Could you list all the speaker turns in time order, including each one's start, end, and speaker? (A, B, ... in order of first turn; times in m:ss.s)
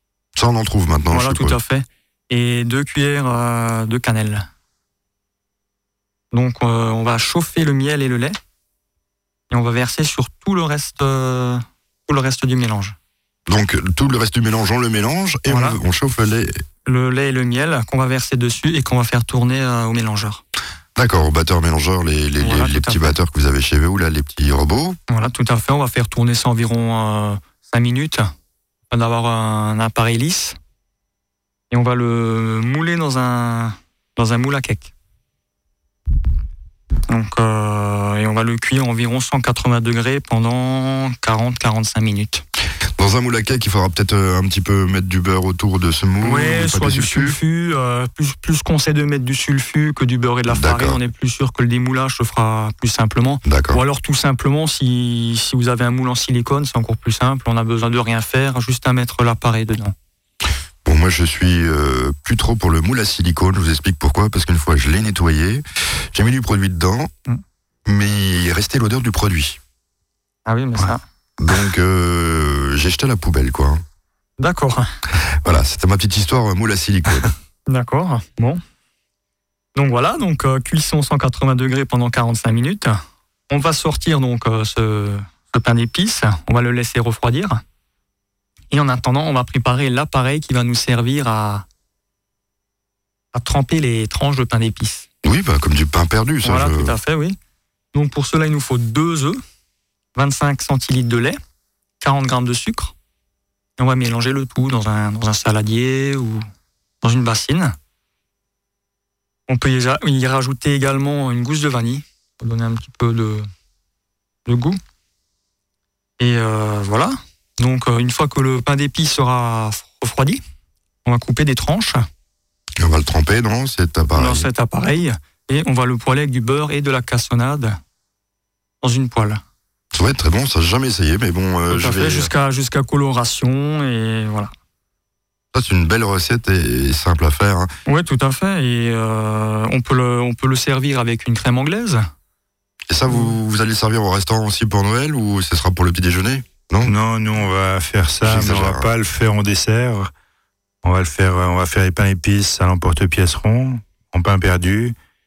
0:00.4-0:01.6 A
0:01.1-0:04.5 B
0:06.3-0:08.4 B
0:09.5-0:13.0 B
0:13.5-0:16.6 A
0:15.5-0:15.8 B
0:16.9-0:20.4 B
0:21.0-0:25.0 A
0:22.4-0:23.2 B
0:25.1-0:28.3 B
0:28.9-0:30.6 B
0:31.7-0:34.9 B
0:37.1-0:42.4 B
0:43.0-0:47.4 A
0:46.2-1:00.0 B
0:50.5-0:51.0 A
0:53.4-0:53.8 A
1:00.8-1:07.1 A
1:07.9-1:09.6 A
1:10.5-1:11.0 B
1:11.4-1:13.8 A
1:14.4-1:14.9 B
1:15.4-1:17.3 A
1:17.7-1:18.6 B
1:19.8-1:27.6 B
1:28.7-1:31.6 B
1:33.3-1:35.1 B
1:35.2-1:36.9 A
1:36.4-1:37.4 B
1:37.9-1:39.4 B
1:40.2-1:41.4 B
1:42.0-1:42.9 B
1:43.8-1:46.4 B
1:47.0-1:47.8 B
1:49.5-1:53.5 B
1:54.5-1:54.8 B
1:56.2-2:00.4 B
2:01.0-2:02.0 B
2:02.8-2:04.5 A
2:04.2-2:07.8 B
2:08.8-2:09.4 B
2:09.9-2:12.3 A
2:11.7-2:14.5 B
2:15.5-2:17.7 A
2:17.9-2:22.1 B
2:22.9-2:26.9 A
2:26.8-2:30.1 C
2:28.2-2:28.9 A
2:30.8-2:35.0 C